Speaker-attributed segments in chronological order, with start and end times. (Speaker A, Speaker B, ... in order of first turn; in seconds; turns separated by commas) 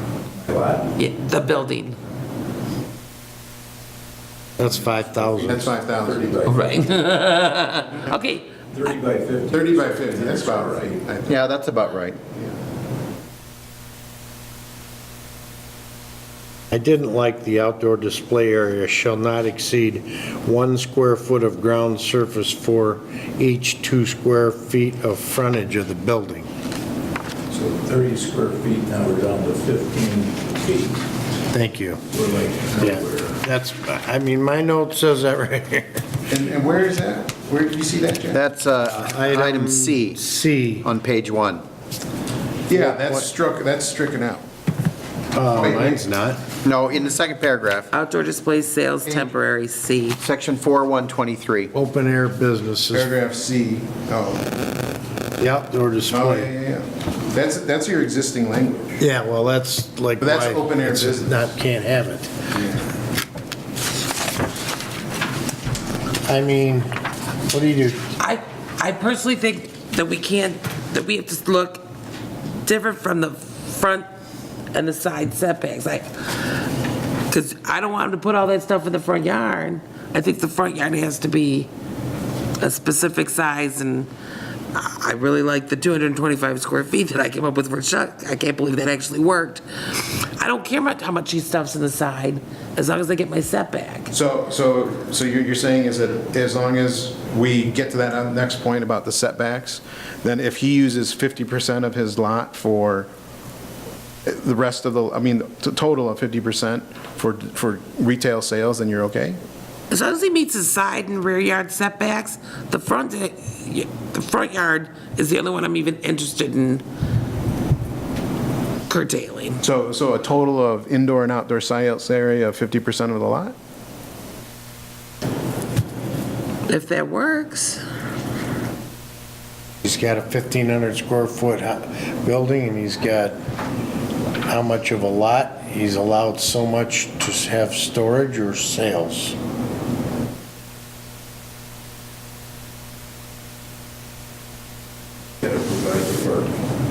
Speaker A: 0.3-1.0, Speaker B: 1.0-2.0, Speaker C: 4.6-5.7, Speaker A: 4.8-6.8, Speaker D: 5.5-6.4, Speaker B: 6.5-8.4, Speaker A: 8.7-11.0, Speaker D: 9.5-11.5, Speaker E: 11.3-12.2, Speaker C: 16.7-26.5, Speaker A: 27.5-31.0, Speaker C: 31.5-32.0, Speaker A: 32.1-33.4, Speaker C: 32.8-36.0, Speaker D: 36.3-38.4, Speaker E: 38.3-40.2, Speaker C: 38.9-40.9, Speaker E: 40.8-41.6, Speaker D: 42.7-44.4, Speaker C: 42.7-43.2, Speaker C: 45.3-46.4, Speaker D: 45.5-46.0, Speaker E: 46.6-47.9, Speaker B: 47.9-50.2, Speaker E: 50.2-51.7, Speaker C: 51.7-53.1, Speaker D: 52.9-54.5, Speaker C: 55.4-56.5, Speaker D: 56.1-59.0, Speaker C: 59.0-62.3, Speaker D: 60.2-61.5, Speaker D: 62.5-62.8, Speaker C: 66.2-66.9, Speaker C: 67.5-68.0, Speaker B: 68.2-71.8, Speaker B: 72.6-74.1, Speaker B: 74.7-76.6, Speaker B: 77.3-81.7, Speaker B: 82.6-84.1, Speaker B: 84.7-94.1, Speaker D: 94.1-103.1, Speaker D: 104.2-109.4, Speaker B: 109.9-116.8, Speaker B: 118.9-119.6, Speaker D: 119.6-123.5, Speaker B: 126.7-127.8, Speaker C: 129.8-133.4, Speaker C: 134.4-139.3, Speaker A: 145.4-146.5